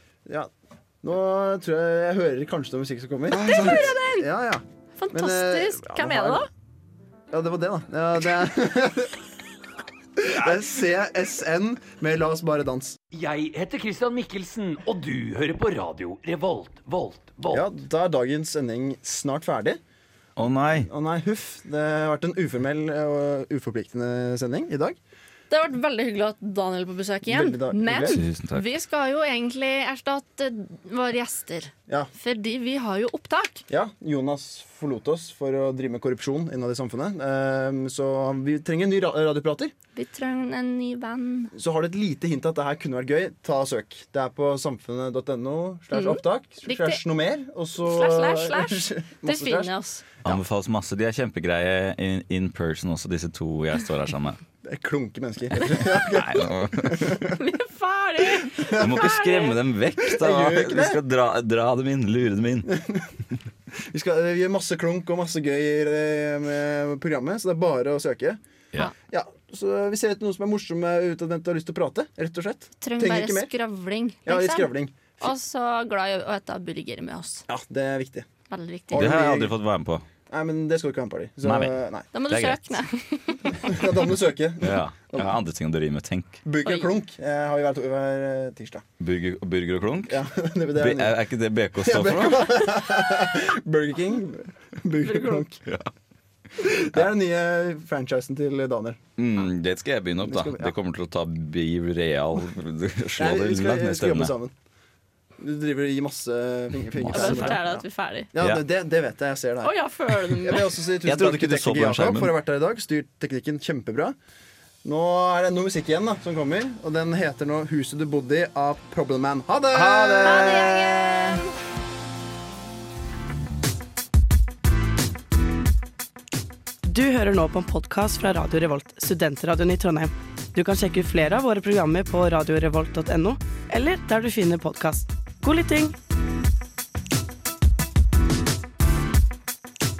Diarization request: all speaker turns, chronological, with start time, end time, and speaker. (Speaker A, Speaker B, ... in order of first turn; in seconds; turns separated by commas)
Speaker A: 1.0-6.4, Speaker B: 3.3-4.3, Speaker B: 5.0-6.5, Speaker A: 7.3-9.2, Speaker A: 10.2-13.0, Speaker C: 10.3-10.6, Speaker C: 13.1-17.7, Speaker A: 17.5-19.8, Speaker D: 20.4-20.9, Speaker A: 20.7-25.0, Speaker B: 25.5-33.6, Speaker A: 27.2-28.2, Speaker D: 28.1-28.6, Speaker A: 33.7-39.7, Speaker B: 40.0-41.5, Speaker A: 41.5-49.7, Speaker B: 45.9-47.0, Speaker B: 47.8-50.0, Speaker D: 50.2-54.4, Speaker A: 54.6-57.4, Speaker D: 55.8-57.2, Speaker B: 57.3-59.6, Speaker A: 58.4-59.1, Speaker D: 58.8-62.8, Speaker A: 60.1-61.0, Speaker A: 62.6-63.1, Speaker A: 63.9-68.4, Speaker A: 69.0-73.5, Speaker B: 72.8-77.4, Speaker A: 74.2-75.3, Speaker A: 77.5-78.3, Speaker B: 78.5-79.1, Speaker A: 78.9-79.5, Speaker D: 78.9-80.0, Speaker A: 80.3-82.1, Speaker D: 81.4-81.7, Speaker B: 82.1-83.8, Speaker D: 82.3-82.8, Speaker A: 83.6-85.3, Speaker D: 84.6-86.4, Speaker A: 86.4-88.8, Speaker D: 89.0-90.2, Speaker A: 90.1-91.2, Speaker D: 90.8-92.8, Speaker A: 91.8-95.6, Speaker A: 96.6-99.0, Speaker D: 99.2-104.3, Speaker A: 100.2-100.7, Speaker A: 103.2-104.5, Speaker A: 105.4-109.7, Speaker D: 106.9-107.6, Speaker B: 107.1-108.3, Speaker D: 108.4-108.6, Speaker B: 109.6-110.7, Speaker A: 110.3-114.2, Speaker D: 111.0-112.3, Speaker A: 114.8-121.0, Speaker D: 119.7-120.5, Speaker B: 120.2-121.5, Speaker E: 126.8-135.9